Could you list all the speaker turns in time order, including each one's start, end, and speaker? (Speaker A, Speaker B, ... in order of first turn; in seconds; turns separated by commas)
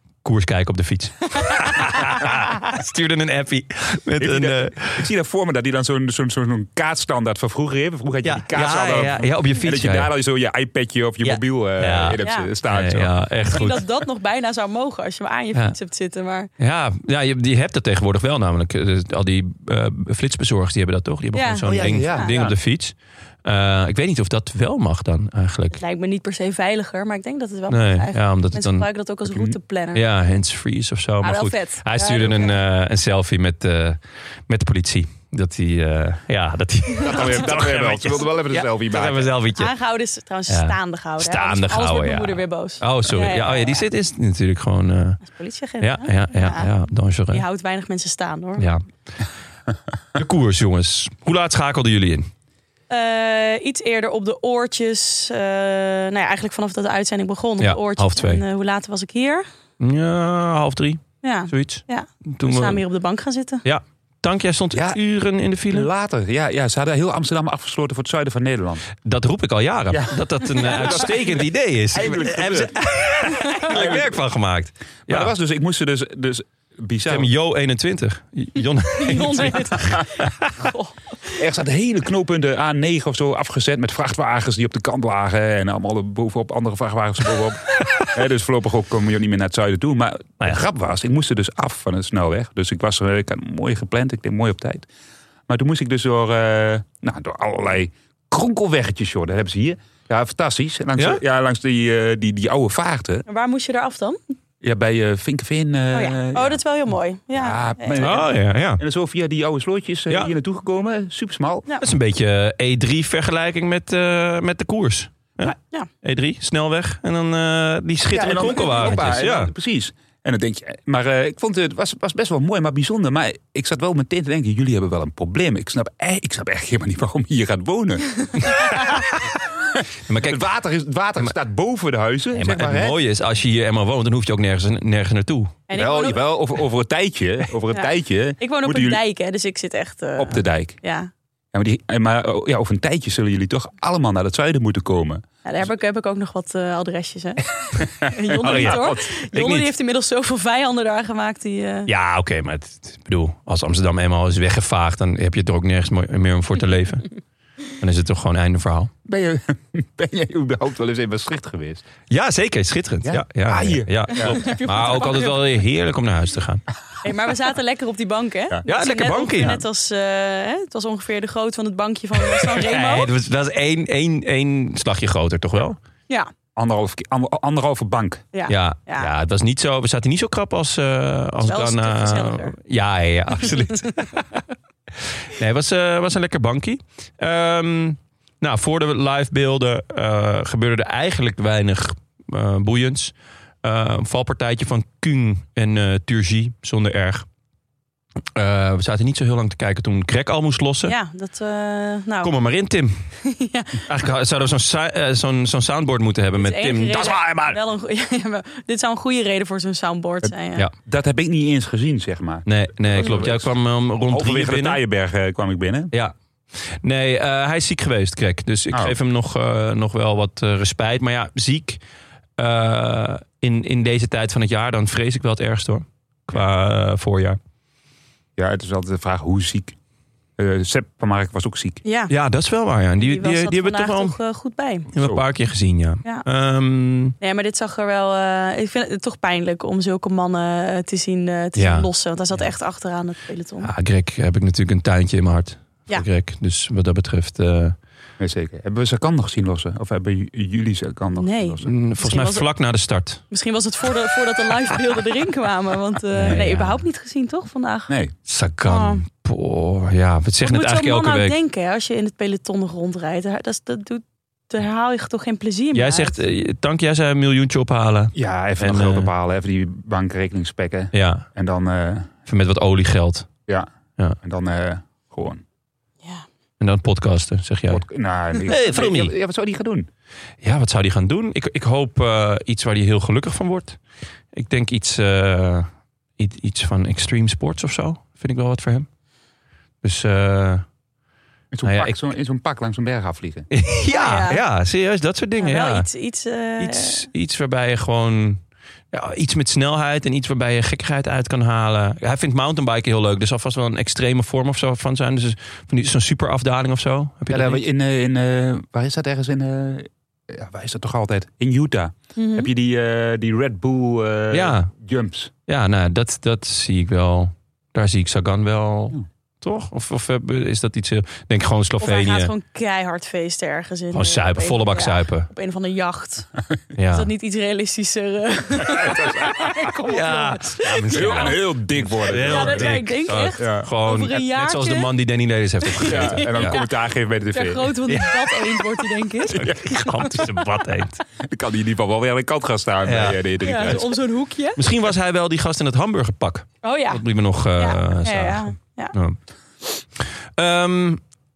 Speaker A: 0.2-5.1, Speaker B: 1.5-2.0, Speaker C: 4.2-13.1, Speaker A: 8.2-10.1, Speaker A: 11.2-13.8, Speaker B: 12.2-12.5, Speaker B: 13.5-16.5, Speaker A: 16.6-25.8, Speaker B: 21.3-22.3, Speaker C: 21.7-22.5, Speaker B: 25.7-30.0, Speaker A: 27.7-28.9, Speaker A: 29.9-39.7, Speaker B: 31.2-32.6, Speaker C: 37.0-39.3, Speaker B: 39.6-43.9, Speaker A: 40.5-45.2, Speaker B: 45.2-46.7, Speaker A: 45.8-47.4, Speaker B: 47.3-48.7, Speaker A: 48.6-48.8, Speaker A: 50.2-52.3, Speaker B: 52.9-59.5, Speaker A: 57.6-58.4, Speaker A: 59.8-62.8, Speaker B: 61.2-63.6, Speaker A: 63.6-65.9, Speaker C: 64.7-65.0, Speaker C: 65.7-68.9, Speaker A: 69.0-75.3, Speaker C: 69.9-72.8, Speaker B: 73.4-73.7, Speaker C: 73.6-74.2, Speaker C: 75.1-77.3, Speaker A: 77.1-80.5, Speaker B: 78.9-81.4, Speaker C: 81.4-94.9, Speaker C: 95.5-103.2, Speaker B: 103.3-104.2, Speaker C: 104.6-106.6, Speaker B: 105.9-108.1, Speaker C: 107.3-111.7, Speaker A: 108.0-108.8, Speaker A: 111.8-119.5, Speaker C: 118.1-129.0, Speaker B: 118.6-118.9, Speaker C: 129.8-133.0, Speaker A: 130.1-130.4, Speaker A: 132.3-135.6, Speaker B: 135.7-136.2, Speaker C: 135.7-139.0, Speaker B: 137.7-141.1, Speaker C: 140.2-140.8, Speaker C: 141.5-145.2, Speaker B: 145.4-147.4, Speaker C: 147.8-149.1, Speaker B: 148.0-151.9, Speaker A: 148.4-149.7, Speaker A: 151.9-157.2, Speaker A: 157.8-158.9, Speaker C: 159.1-161.8, Speaker A: 162.1-166.6, Speaker C: 163.1-164.5, Speaker B: 164.2-165.5, Speaker B: 167.0-173.1, Speaker A: 168.7-169.6, Speaker A: 172.3-175.8, Speaker C: 176.6-178.3, Speaker B: 178.3-179.1, Speaker A: 178.5-184.3, Speaker B: 181.4-182.5, Speaker A: 185.3-197.2, Speaker A: 198.4-200.9, Speaker B: 200.9-202.3, Speaker A: 202.2-203.1, Speaker B: 203.2-203.8, Speaker A: 203.9-207.2, Speaker B: 206.4-210.7, Speaker C: 206.9-207.6, Speaker C: 210.8-213.5, Speaker A: 212.5-214.8, Speaker C: 214.1-215.9, Speaker A: 215.9-221.8, Speaker A: 222.4-227.4, Speaker C: 228.4-229.8, Speaker C: 230.4-231.8, Speaker B: 231.8-232.1, Speaker A: 232.1-234.2, Speaker B: 233.0-234.9, Speaker A: 234.9-237.2, Speaker C: 235.0-235.2, Speaker B: 237.2-243.7, Speaker A: 241.6-241.9, Speaker A: 243.6-247.8, Speaker C: 248.2-251.7, Speaker B: 251.2-252.5, Speaker A: 251.6-253.2, Speaker B: 253.3-257.9, Speaker A: 256.2-256.8, Speaker A: 258.3-261.4, Speaker B: 258.6-259.0, Speaker B: 260.4-266.2, Speaker A: 265.7-269.1, Speaker C: 268.2-272.1, Speaker A: 270.9-271.3, Speaker A: 272.3-273.3, Speaker C: 274.2-275.4, Speaker A: 276.6-277.8, Speaker C: 277.7-279.9, Speaker A: 278.5-279.1, Speaker A: 280.4-283.8, Speaker A: 284.3-288.9, Speaker A: 289.8-290.6, Speaker C: 291.5-293.5, Speaker A: 291.6-291.9, Speaker A: 293.5-295.9, Speaker B: 293.9-294.4, Speaker B: 295.4-297.1, Speaker A: 296.6-298.4, Speaker A: 298.9-307.6, Speaker C: 307.3-315.3, Speaker B: 312.2-312.5, Speaker A: 314.3-314.7, Speaker A: 315.5-322.3, Speaker B: 321.8-326.3, Speaker A: 323.9-325.3, Speaker A: 326.8-327.1, Speaker B: 326.9-331.4, Speaker C: 328.7-329.6, Speaker A: 329.9-336.6, Speaker C: 330.9-332.8, Speaker B: 332.2-334.9, Speaker C: 333.4-333.7, Speaker B: 335.7-336.7, Speaker C: 335.9-337.7, Speaker B: 337.3-340.3, Speaker A: 337.9-338.1, Speaker C: 339.3-340.1, Speaker A: 339.3-341.0, Speaker C: 341.2-343.9, Speaker A: 342.9-343.8, Speaker B: 343.4-344.6, Speaker A: 344.6-349.2, Speaker B: 346.6-347.0, Speaker B: 347.6-348.9, Speaker A: 350.4-351.0